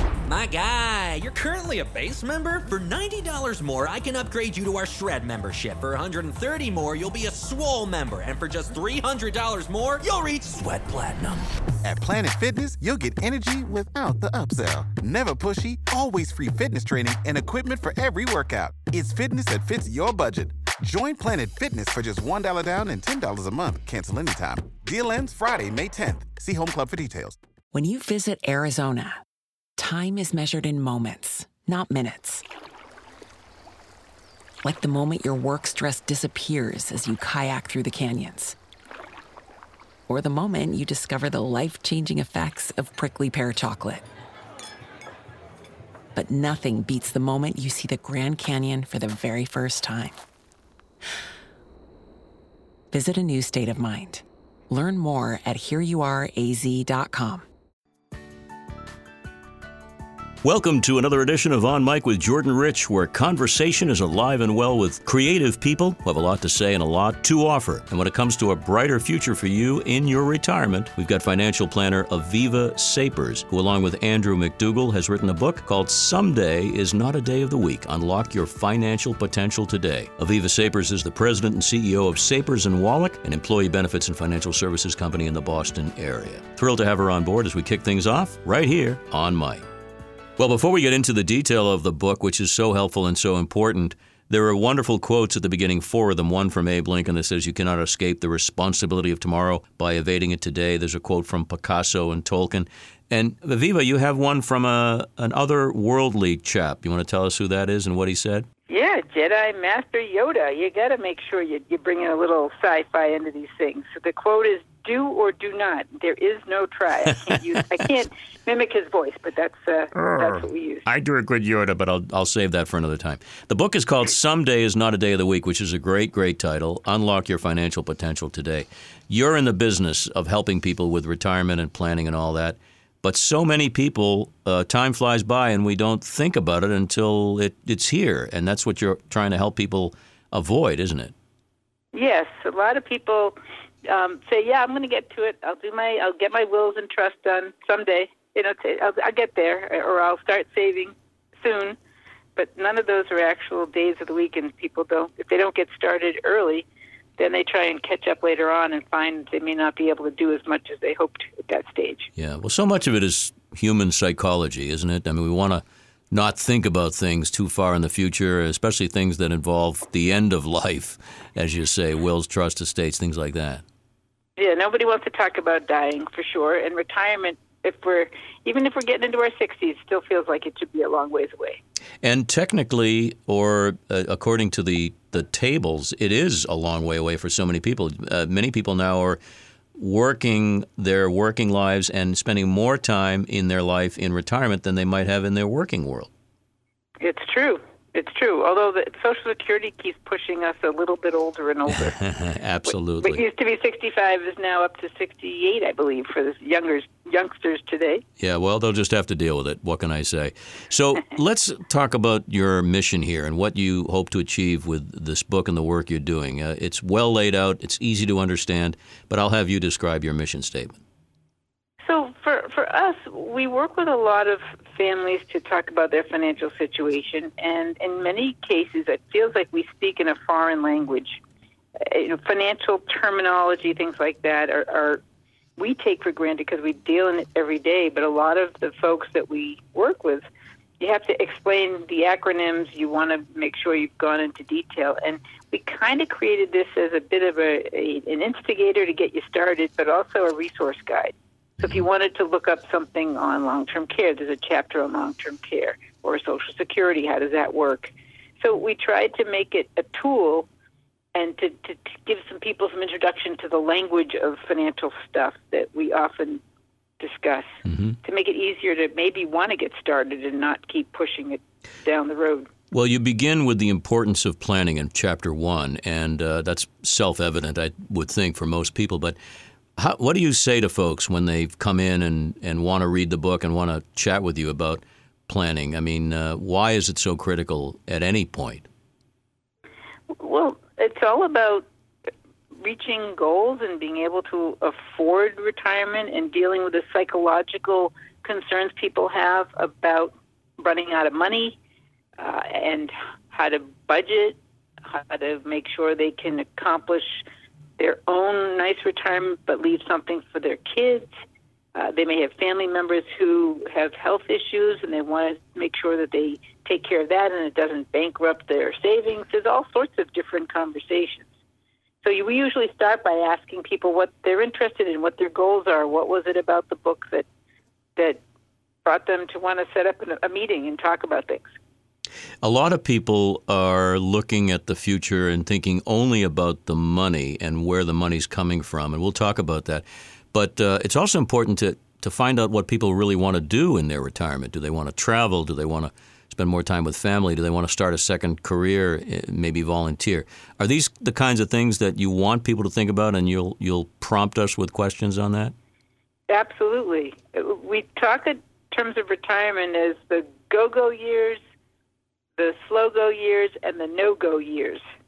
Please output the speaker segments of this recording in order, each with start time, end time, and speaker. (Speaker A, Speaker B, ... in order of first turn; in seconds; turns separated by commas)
Speaker A: 0.3-11.4, Speaker B: 11.8-27.4, Speaker C: 27.7-29.2, Speaker C: 29.8-32.4, Speaker C: 34.6-38.5, Speaker C: 40.1-44.0, Speaker C: 46.1-50.2, Speaker C: 52.9-57.4, Speaker D: 60.4-89.6, Speaker D: 90.4-108.5, Speaker E: 108.7-120.8, Speaker D: 119.9-141.1, Speaker E: 141.9-151.8, Speaker E: 152.3-162.1, Speaker D: 162.2-173.6, Speaker E: 174.4-181.6, Speaker D: 182.0-189.2, Speaker D: 189.7-196.1, Speaker E: 197.0-202.0, Speaker D: 201.7-203.2, Speaker E: 202.8-208.0, Speaker D: 208.2-220.8, Speaker E: 221.8-231.2, Speaker E: 231.8-235.0, Speaker E: 235.6-240.2, Speaker E: 240.8-260.5, Speaker E: 261.1-266.4, Speaker E: 267.0-272.5, Speaker D: 267.6-267.9, Speaker D: 272.7-279.2, Speaker D: 279.8-288.7, Speaker E: 290.1-291.6, Speaker E: 292.6-301.6, Speaker E: 302.2-307.2, Speaker E: 307.8-311.1, Speaker E: 311.7-321.3, Speaker E: 322.0-327.2, Speaker E: 327.9-328.2, Speaker E: 328.8-331.6, Speaker D: 332.4-355.5, Speaker E: 356.3-361.4, Speaker E: 362.4-364.8